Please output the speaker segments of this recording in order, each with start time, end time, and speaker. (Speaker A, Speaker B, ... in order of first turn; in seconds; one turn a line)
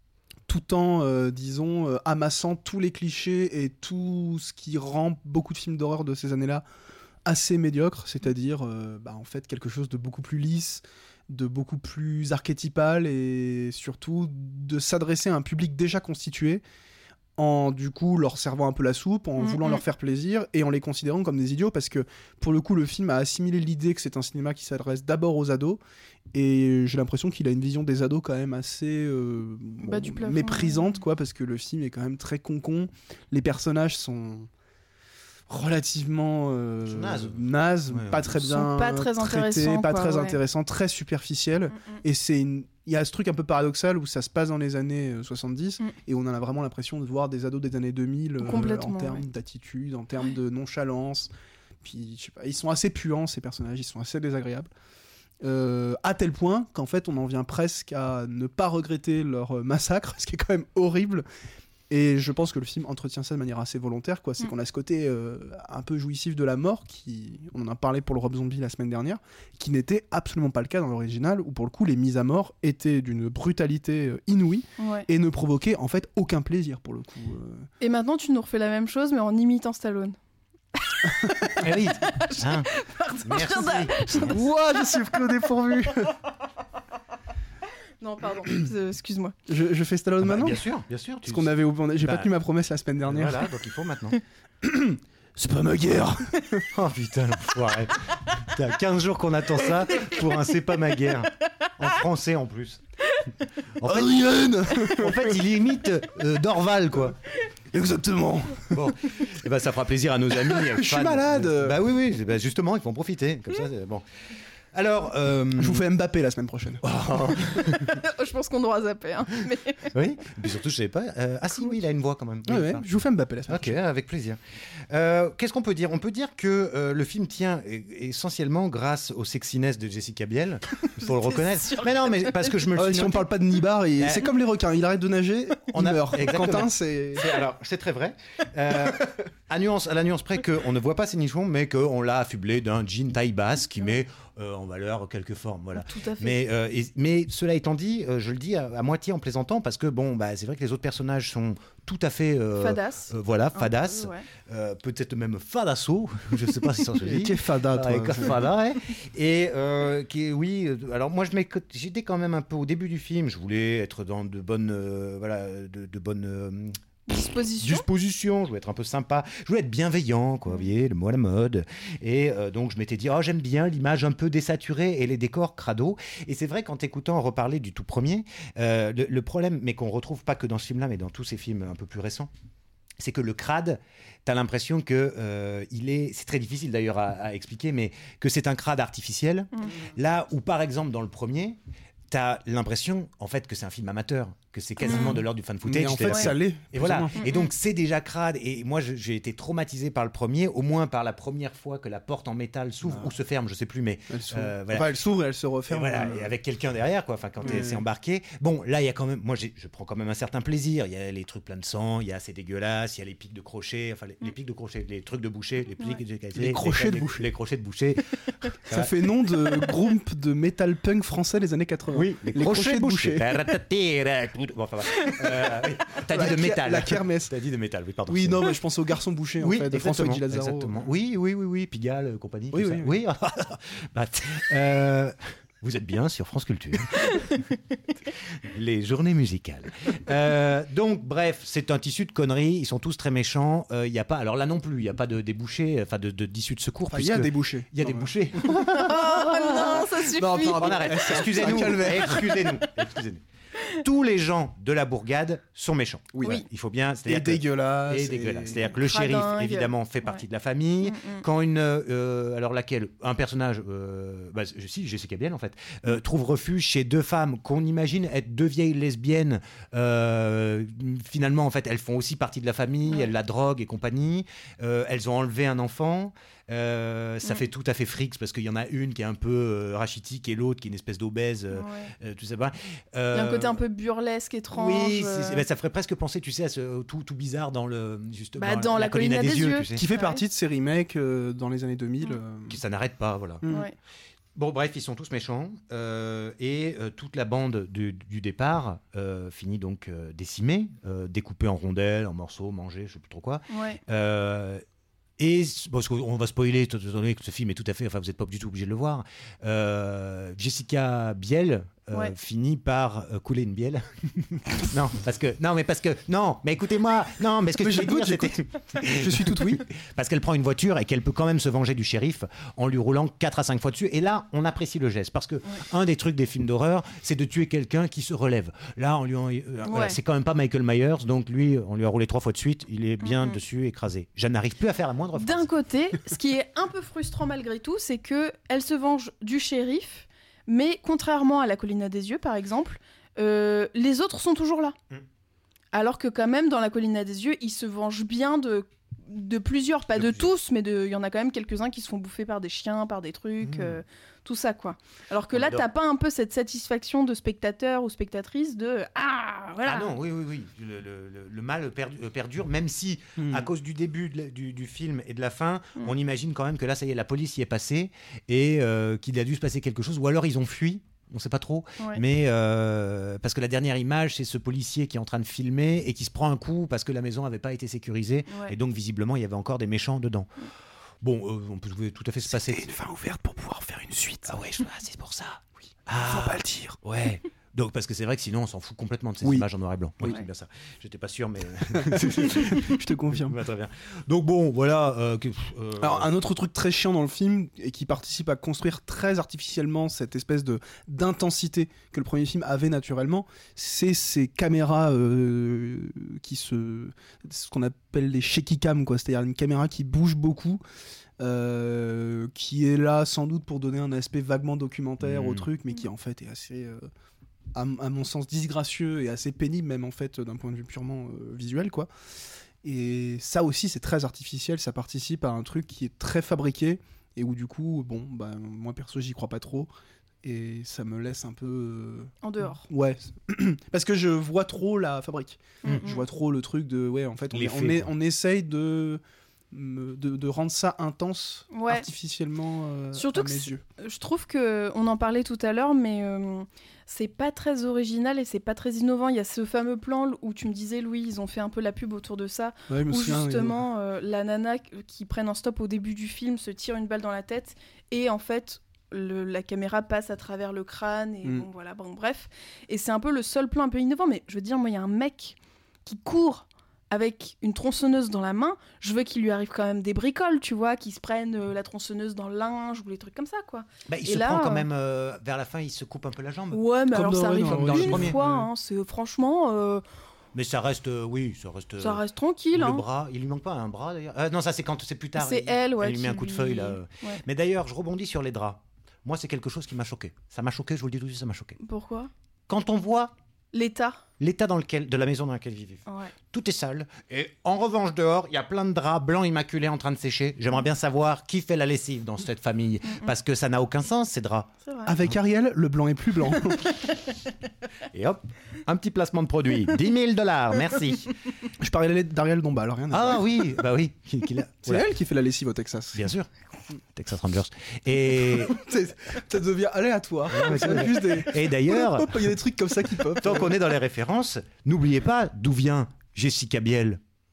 Speaker A: 0.5-6.6
Speaker A: 7.2-16.6
Speaker A: 17.4-25.8
Speaker B: 19.4-19.8
Speaker A: 26.3-34.5
Speaker B: 29.8-30.9
Speaker A: 35.5-51.3
Speaker C: 36.9-38.3
Speaker B: 38.4-40.4
Speaker B: 48.4-49.2
Speaker A: 51.8-54.7
Speaker A: 55.4-61.2
Speaker A: 61.9-77.7
Speaker B: 74.8-75.1
Speaker B: 77.8-80.2
Speaker B: 80.8-84.5
Speaker C: 81.6-82.7
Speaker C: 83.2-84.4
Speaker A: 84.2-86.2
Speaker B: 88.0-89.3
Speaker A: 89.5-90.6
Speaker C: 90.2-92.3
Speaker A: 91.2-93.5
Speaker C: 93.0-94.2
Speaker A: 94.6-96.7
Speaker C: 96.7-102.8
Speaker C: 103.8-107.2
Speaker A: 103.8-105.4
Speaker A: 107.7-108.9
Speaker C: 108.7-114.0
Speaker A: 110.5-111.8
Speaker C: 114.7-115.8
Speaker A: 115.6-117.5
Speaker C: 116.8-118.0
Speaker B: 117.8-119.9
Speaker C: 119.9-122.9
Speaker A: 122.5-123.8
Speaker C: 123.5-124.4
Speaker C: 124.9-133.3
Speaker B: 131.0-131.8
Speaker A: 132.7-137.4
Speaker C: 134.0-134.3
Speaker C: 135.7-166.8
Speaker B: 145.8-146.4
Speaker B: 152.6-154.3
Speaker A: 157.0-158.5
Speaker B: 167.1-167.9
Speaker C: 167.6-182.3
Speaker C: 183.0-191.6
Speaker C: 192.1-204.9
Speaker B: 194.8-195.2
Speaker A: 194.9-197.2
Speaker B: 197.2-197.5
Speaker A: 202.9-203.1
Speaker A: 204.1-206.3
Speaker C: 205.7-219.0
Speaker A: 207.4-207.8
Speaker A: 216.3-217.3
Speaker A: 218.7-223.3
Speaker C: 221.9-228.6
Speaker A: 226.1-227.3
Speaker A: 228.1-230.8
Speaker C: 229.4-237.5
Speaker A: 232.5-233.0
Speaker C: 238.1-283.6
Speaker A: 246.9-248.1
Speaker B: 248.7-251.2
Speaker A: 250.1-252.5
Speaker A: 256.1-256.4
Speaker A: 257.1-258.7
Speaker B: 258.8-260.2
Speaker B: 260.8-261.2
Speaker B: 281.5-281.9
Speaker B: 283.1-285.4
Speaker C: 284.5-289.8
Speaker B: 288.4-290.2
Speaker A: 289.8-292.6
Speaker C: 292.5-293.4
Speaker A: 293.4-293.7
Speaker B: 293.5-293.8
Speaker C: 294.4-304.6
Speaker B: 303.5-303.8
Speaker C: 305.2-335.5
Speaker A: 317.6-319.6
Speaker B: 329.7-330.0
Speaker B: 333.0-333.4
Speaker B: 335.2-344.8
Speaker B: 345.7-359.9
Speaker C: 353.4-353.8
Speaker C: 355.3-355.6
Speaker C: 359.6-380.3
Speaker A: 363.2-363.5
Speaker C: 381.0-382.7
Speaker A: 382.3-384.4
Speaker C: 384.3-396.1
Speaker A: 386.0-386.8
Speaker A: 391.7-393.4
Speaker A: 395.8-410.6
Speaker A: 411.2-416.9
Speaker C: 415.0-415.5
Speaker A: 417.5-421.9
Speaker A: 422.6-429.7
Speaker A: 430.2-432.1
Speaker B: 432.2-432.7
Speaker A: 432.6-443.6
Speaker B: 435.6-436.0
Speaker C: 437.3-437.9
Speaker B: 441.5-441.9
Speaker B: 442.9-474.7
Speaker A: 452.7-453.6
Speaker C: 473.9-476.6
Speaker B: 476.5-479.8
Speaker A: 476.9-478.5
Speaker C: 477.4-478.2
Speaker C: 480.3-491.6
Speaker B: 481.8-482.8
Speaker B: 485.2-487.2
Speaker B: 491.6-492.1
Speaker C: 492.5-493.1
Speaker B: 493.5-494.0
Speaker C: 494.2-504.5
Speaker B: 495.9-496.1
Speaker B: 504.7-504.9
Speaker A: 504.9-506.8
Speaker C: 507.9-511.2
Speaker A: 511.6-513.5
Speaker C: 512.9-514.9
Speaker A: 514.6-516.1
Speaker C: 516.0-516.3
Speaker C: 517.0-518.6
Speaker A: 518.2-523.6
Speaker C: 520.3-522.3
Speaker C: 523.2-527.0